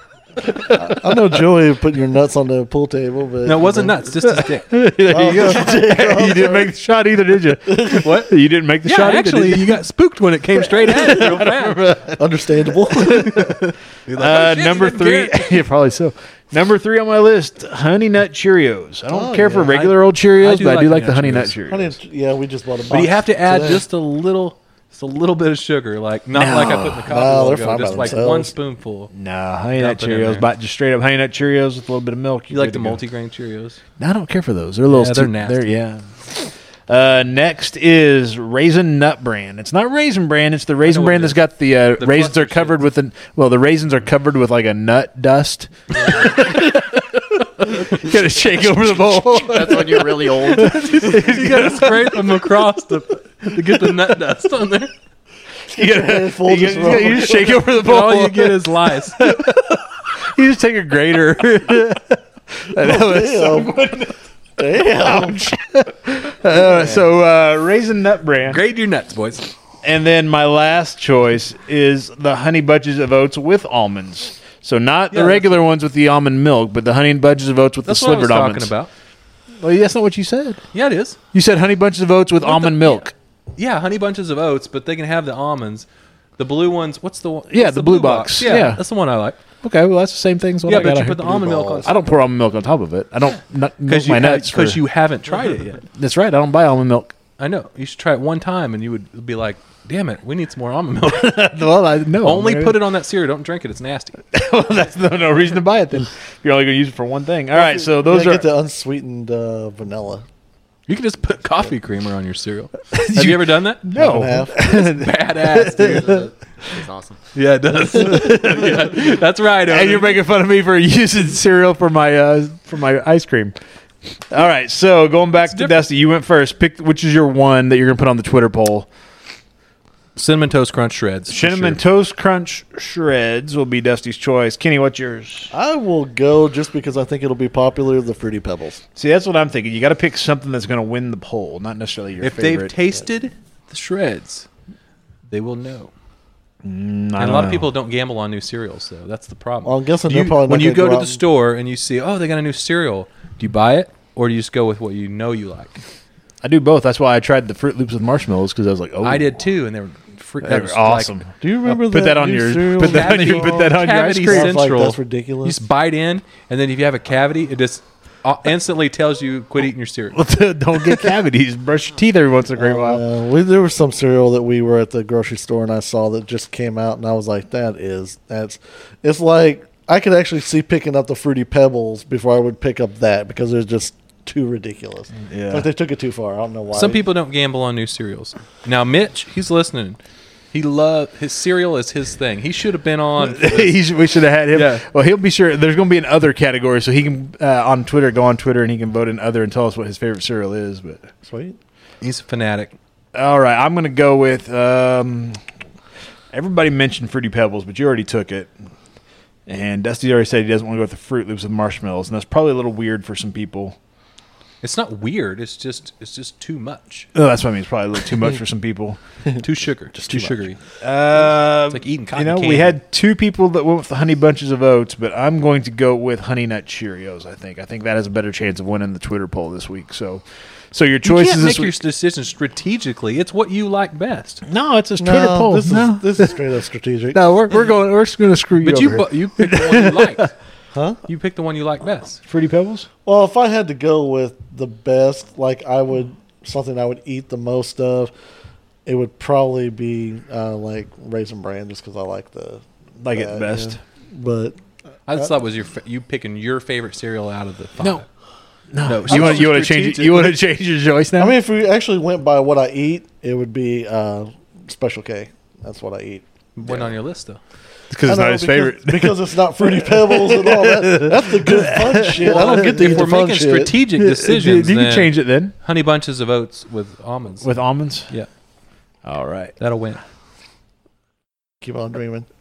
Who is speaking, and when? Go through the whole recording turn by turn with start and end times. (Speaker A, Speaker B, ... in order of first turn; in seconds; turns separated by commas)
Speaker A: 0.7-4.0, Speaker B: 3.4-4.7, Speaker C: 4.2-9.8, Speaker A: 5.1-6.7, Speaker A: 7.7-8.0, Speaker B: 7.9-8.3, Speaker B: 8.8-12.0, Speaker C: 10.6-12.2, Speaker A: 12.2-13.4, Speaker B: 13.0-15.7, Speaker C: 13.1-13.6, Speaker C: 14.1-22.0, Speaker A: 19.1-19.9, Speaker B: 19.7-21.6, Speaker A: 21.7-23.8, Speaker B: 22.9-29.1, Speaker C: 26.3-27.0, Speaker A: 27.0-28.5, Speaker C: 29.1-33.0, Speaker B: 29.8-30.4, Speaker B: 32.5-33.8, Speaker C: 34.0-52.2, Speaker B: 34.9-35.7, Speaker B: 40.8-41.4, Speaker B: 42.0-42.8, Speaker D: 49.1-51.8, Speaker B: 50.6-54.9, Speaker A: 55.7-57.5, Speaker C: 55.7-64.2, Speaker B: 57.7-59.3, Speaker A: 62.8-63.7, Speaker A: 64.6-65.4, Speaker C: 64.9-68.6, Speaker A: 66.5-67.0, Speaker B: 68.5-69.5, Speaker C: 69.8-78.7, Speaker B: 75.1-75.6, Speaker B: 77.8-78.9, Speaker C: 79.6-80.6, Speaker B: 80.7-81.2, Speaker C: 81.3-83.1, Speaker B: 82.4-83.0, Speaker B: 83.5-85.9, Speaker B: 86.4-89.4, Speaker C: 87.5-88.8, Speaker C: 89.6-94.8, Speaker B: 90.6-92.2, Speaker A: 90.8-91.9, Speaker B: 93.8-95.8, Speaker C: 95.9-97.1, Speaker B: 97.4-101.5, Speaker C: 101.0-102.8, Speaker B: 102.2-104.2, Speaker C: 104.3-108.5, Speaker A: 107.5-110.2, Speaker B: 110.9-113.9, Speaker C: 112.9-116.2, Speaker A: 113.9-114.5, Speaker B: 114.5-116.3, Speaker D: 115.7-117.2, Speaker B: 117.3-120.2, Speaker C: 117.9-119.1, Speaker C: 119.7-123.5, Speaker C: 124.3-128.9, Speaker B: 125.5-125.8, Speaker B: 130.2-131.8, Speaker C: 131.3-135.5, Speaker A: 135.5-138.8, Speaker C: 138.9-142.7, Speaker B: 142.2-144.5, Speaker B: 145.3-145.9, Speaker C: 146.6-147.7, Speaker B: 147.2-155.8, Speaker A: 149.6-151.2, Speaker C: 156.4-159.3, Speaker B: 159.0-161.1, Speaker C: 160.4-164.6, Speaker A: 161.4-165.6, Speaker B: 162.7-170.2, Speaker C: 170.1-173.0, Speaker A: 172.6-187.0, Speaker C: 185.3-185.7, Speaker B: 186.7-190.0, Speaker B: 190.5-193.8, Speaker C: 193.2-201.1, Speaker B: 194.5-194.8, Speaker A: 201.2-201.6, Speaker B: 202.0-202.7, Speaker C: 203.1-205.4, Speaker C: 206.3-208.5, Speaker C: 209.5-213.8, Speaker B: 214.6-217.1, Speaker C: 217.1-219.0, Speaker B: 219.4-220.6, Speaker A: 220.0-220.4, Speaker C: 220.8-231.7, Speaker B: 221.5-222.8, Speaker B: 231.0-234.4, Speaker C: 234.4-236.4, Speaker A: 235.0-237.2, Speaker C: 237.1-240.3, Speaker B: 238.6-240.3, Speaker A: 240.7-241.0, Speaker B: 241.1-242.2, Speaker C: 242.3-242.9, Speaker A: 243.0-248.1, Speaker A: 248.8-254.6, Speaker C: 253.0-253.8, Speaker B: 255.1-258.1, Speaker C: 258.7-261.4, Speaker B: 258.9-260.4, Speaker A: 259.1-259.5, Speaker A: 261.2-266.2, Speaker B: 266.6-267.4, Speaker C: 267.9-269.2, Speaker A: 268.0-273.7, Speaker C: 269.7-273.0, Speaker B: 272.1-277.4, Speaker C: 273.9-275.5, Speaker C: 277.4-278.1, Speaker C: 279.0-279.5, Speaker B: 279.6-280.0, Speaker A: 281.6-282.3